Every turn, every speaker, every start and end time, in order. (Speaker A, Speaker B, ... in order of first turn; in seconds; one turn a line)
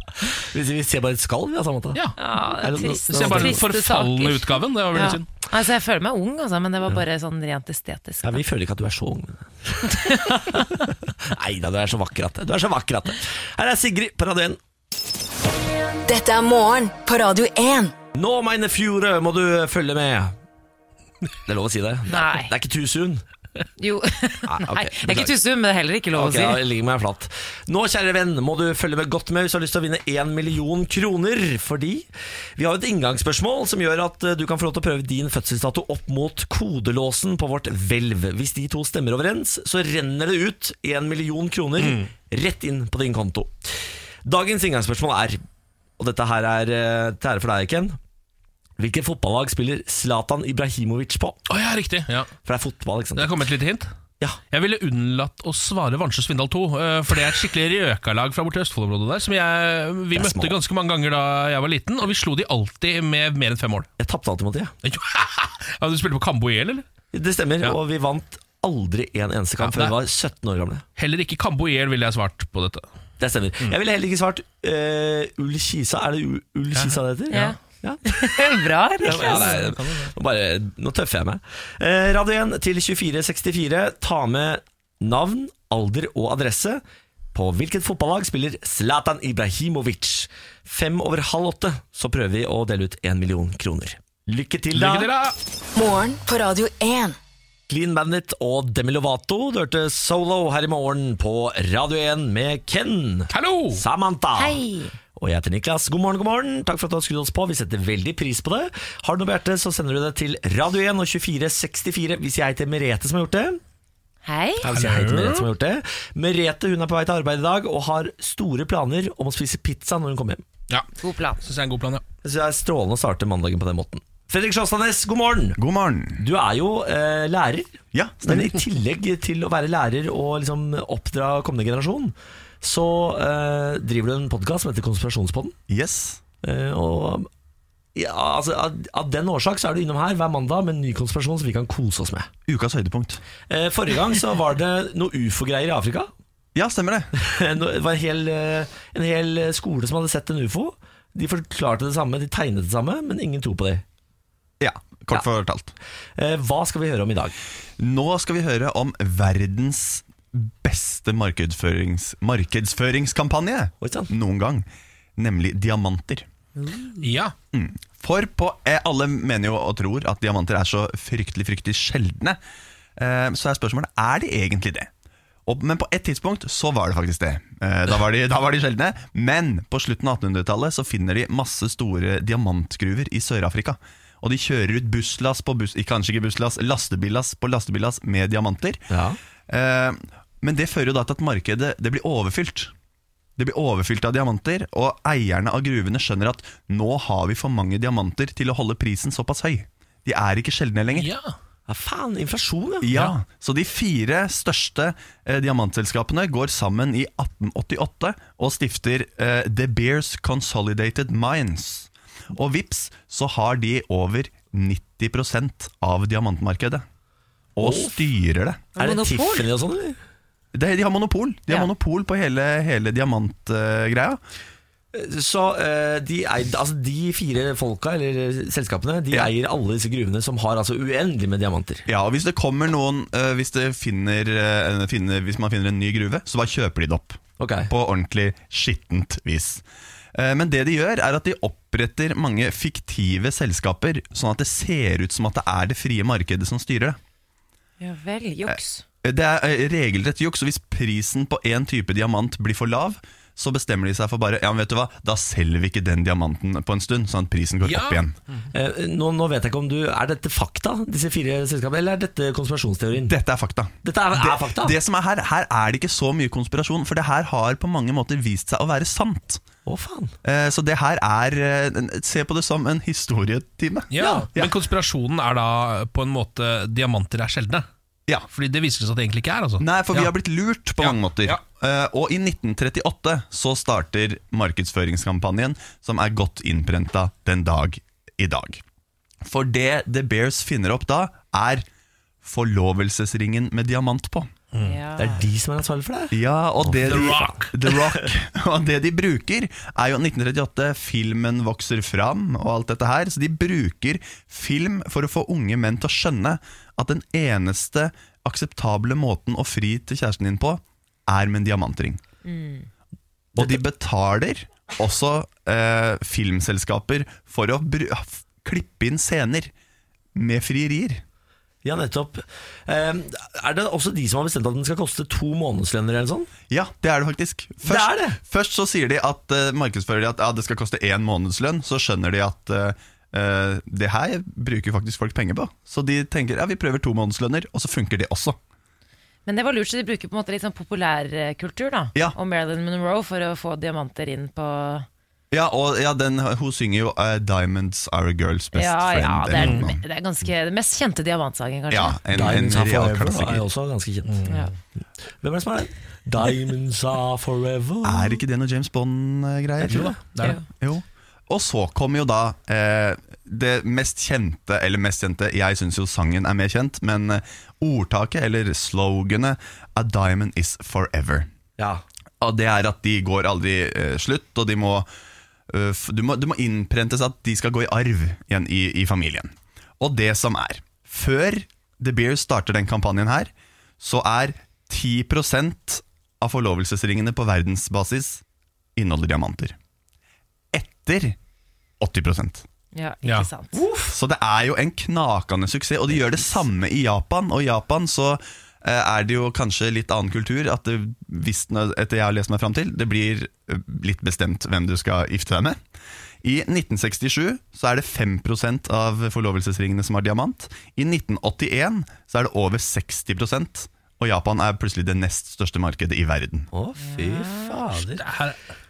Speaker A: 0.3-3.6
Speaker B: 2.2-8.4
Speaker C: 3.1-5.2
Speaker A: 8.2-14.6
Speaker B: 10.1-10.3
Speaker D: 16.1-17.9
Speaker A: 18.1-20.3
Speaker A: 21.4-23.2
Speaker B: 22.1-22.5
Speaker B: 23.8-26.6
Speaker A: 24.4-25.3
Speaker A: 26.1-45.4
Speaker C: 41.8-42.1
Speaker A: 46.0-48.0
Speaker A: 48.8-51.4
Speaker C: 51.5-52.3
Speaker A: 52.4-53.4
Speaker C: 53.2-53.9
Speaker C: 54.5-63.9
Speaker A: 60.1-60.6
Speaker A: 64.0-64.7
Speaker C: 64.8-66.8
Speaker A: 67.1-70.8
Speaker C: 69.6-70.0
Speaker C: 71.0-72.8
Speaker A: 73.2-78.3
Speaker C: 76.7-77.5
Speaker B: 77.3-79.6
Speaker A: 79.0-86.8
Speaker C: 79.1-80.1
Speaker A: 87.3-95.1
Speaker C: 94.7-95.3
Speaker D: 95.8-97.2
Speaker A: 97.7-104.6
Speaker C: 103.3-103.8
Speaker B: 104.3-104.9
Speaker A: 105.2-113.6
Speaker B: 114.2-114.7
Speaker A: 114.6-120.4
Speaker C: 114.7-115.5
Speaker B: 121.0-121.4
Speaker C: 121.4-122.0
Speaker A: 122.2-125.6
Speaker E: 125.5-126.2
Speaker A: 126.2-135.6
Speaker E: 127.9-128.3
Speaker E: 135.7-136.2
Speaker A: 136.4-137.3
Speaker A: 137.9-142.3
Speaker E: 142.5-143.2
Speaker A: 143.5-146.1
Speaker E: 146.5-147.1
Speaker A: 147.2-153.8
Speaker E: 154.6-155.7
Speaker A: 156.2-157.4
Speaker E: 157.8-166.2
Speaker A: 163.8-164.1
Speaker C: 167.0-167.3
Speaker E: 167.5-172.4
Speaker E: 173.0-174.9
Speaker E: 175.4-188.8
Speaker A: 188.9-189.2
Speaker E: 189.5-192.7
Speaker E: 193.4-201.1
Speaker C: 200.9-201.3
Speaker A: 201.7-202.9
Speaker E: 202.8-216.8
Speaker E: 217.6-218.7
Speaker A: 217.6-218.0
Speaker B: 218.8-219.5
Speaker A: 218.8-220.0
Speaker E: 220.5-224.2
Speaker A: 224.9-231.8
Speaker E: 231.9-239.6
Speaker A: 237.4-237.7
Speaker E: 240.1-247.0
Speaker B: 247.8-248.8
Speaker E: 248.5-258.1
Speaker C: 257.6-258.5
Speaker A: 258.5-263.1
Speaker E: 263.0-269.4
Speaker A: 263.8-264.8
Speaker A: 269.6-270.1
Speaker E: 270.2-274.5
Speaker C: 273.9-277.6
Speaker A: 274.0-274.3
Speaker C: 278.3-280.1
Speaker E: 279.6-288.6
Speaker C: 280.8-281.4
Speaker E: 289.2-291.6
Speaker E: 292.2-294.3
Speaker C: 294.5-294.8
Speaker B: 294.6-295.2
Speaker A: 295.0-297.1
Speaker E: 296.1-312.0
Speaker C: 296.8-297.6
Speaker B: 312.2-312.7
Speaker E: 313.3-319.5
Speaker E: 320.1-321.0
Speaker A: 321.6-326.3
Speaker E: 326.5-338.4
Speaker A: 327.6-328.2
Speaker B: 339.2-344.9
Speaker E: 345.3-349.8
Speaker B: 348.5-351.9
Speaker C: 349.4-349.6
Speaker E: 351.7-353.4
Speaker A: 352.1-354.3
Speaker C: 354.1-354.4
Speaker A: 355.2-358.2
Speaker E: 357.8-359.9
Speaker A: 359.6-359.9
Speaker C: 359.7-360.4
Speaker E: 360.5-371.3
Speaker A: 371.6-371.8
Speaker E: 372.2-374.9
Speaker E: 375.5-388.2
Speaker E: 388.8-389.6
Speaker E: 390.5-391.1
Speaker E: 391.8-392.4
Speaker B: 392.7-393.6
Speaker A: 393.5-393.9
Speaker E: 393.9-405.6
Speaker E: 406.2-416.5
Speaker A: 416.5-418.0
Speaker B: 416.8-417.6
Speaker C: 417.9-418.4